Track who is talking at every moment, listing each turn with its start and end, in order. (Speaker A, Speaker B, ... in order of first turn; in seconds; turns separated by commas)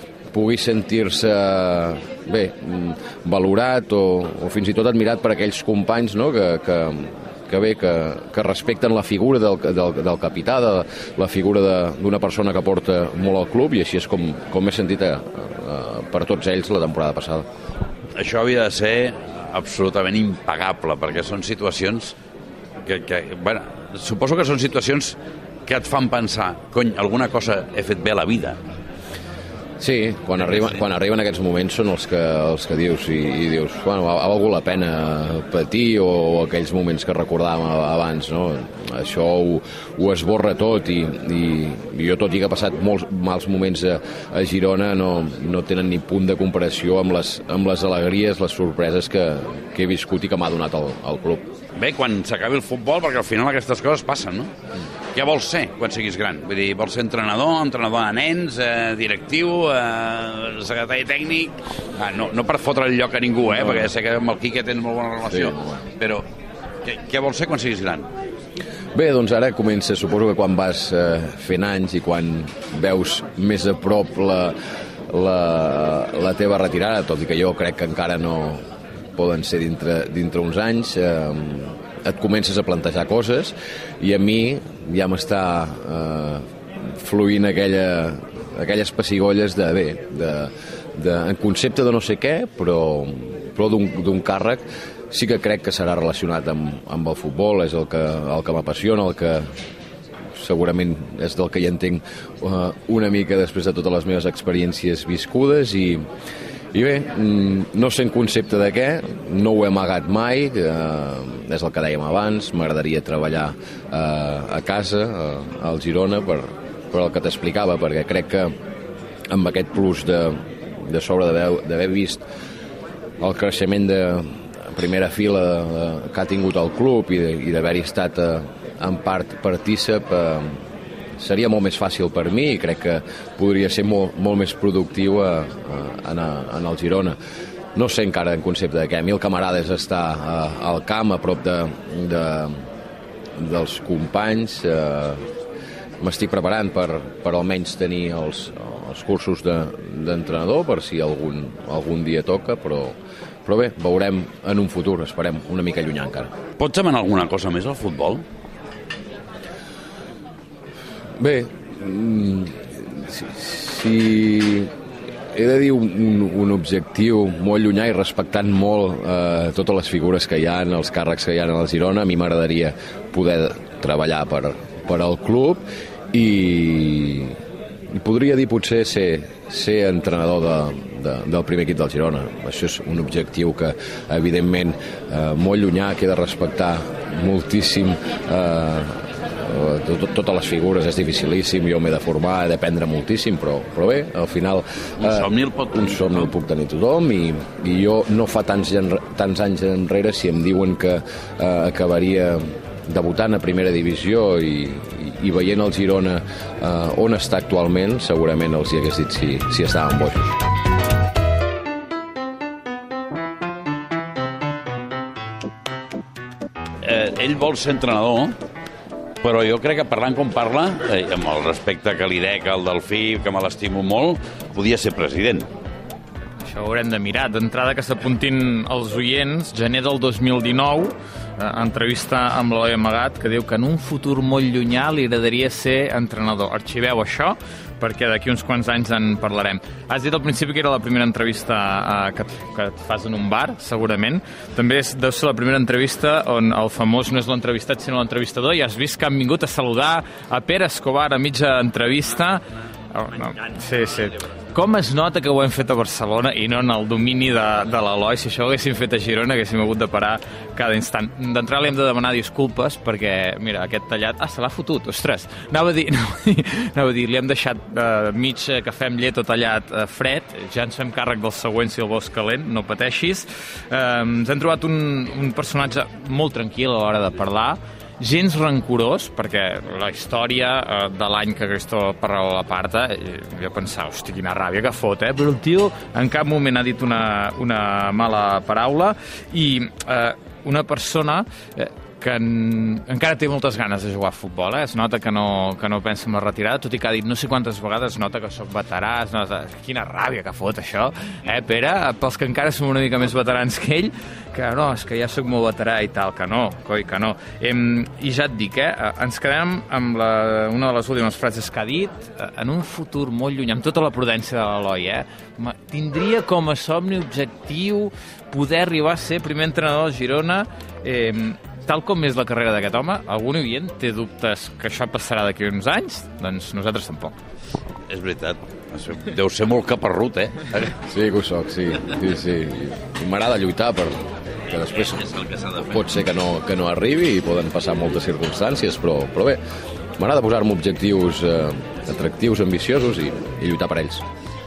Speaker A: 0.3-17.5, Speaker B: 18.2-22.1, Speaker B: 22.9-28.6, Speaker A: 29.8-51.5, Speaker B: 51.8-54.5, Speaker B: 55.1-66.3, Speaker A: 65.3-65.8, Speaker B: 66.8-68.1, Speaker A: 68.9-74.6, Speaker A: 75.1-78.6, Speaker A: 79.2-99.5, Speaker A: 100.3-106.0, Speaker A: 106.7-118.5, Speaker A: 119.3-122.2, Speaker A: 123.2-130.6, Speaker A: 131.2-137.2, Speaker A: 137.8-142.6, Speaker A: 143.4-145.2, Speaker A: 146.0-156.3, Speaker B: 156.6-158.2, Speaker A: 161.2-164.7, Speaker A: 165.3-177.4, Speaker A: 177.9-210.4, Speaker B: 195.0-196.3, Speaker B: 216.8-218.4, Speaker B: 219.2-225.5, Speaker C: 226.4-327.2, Speaker B: 327.9-330.8, Speaker A: 330.9-335.1, Speaker B: 335.0-335.7, Speaker A: 335.6-339.4, Speaker A: 340.0-344.0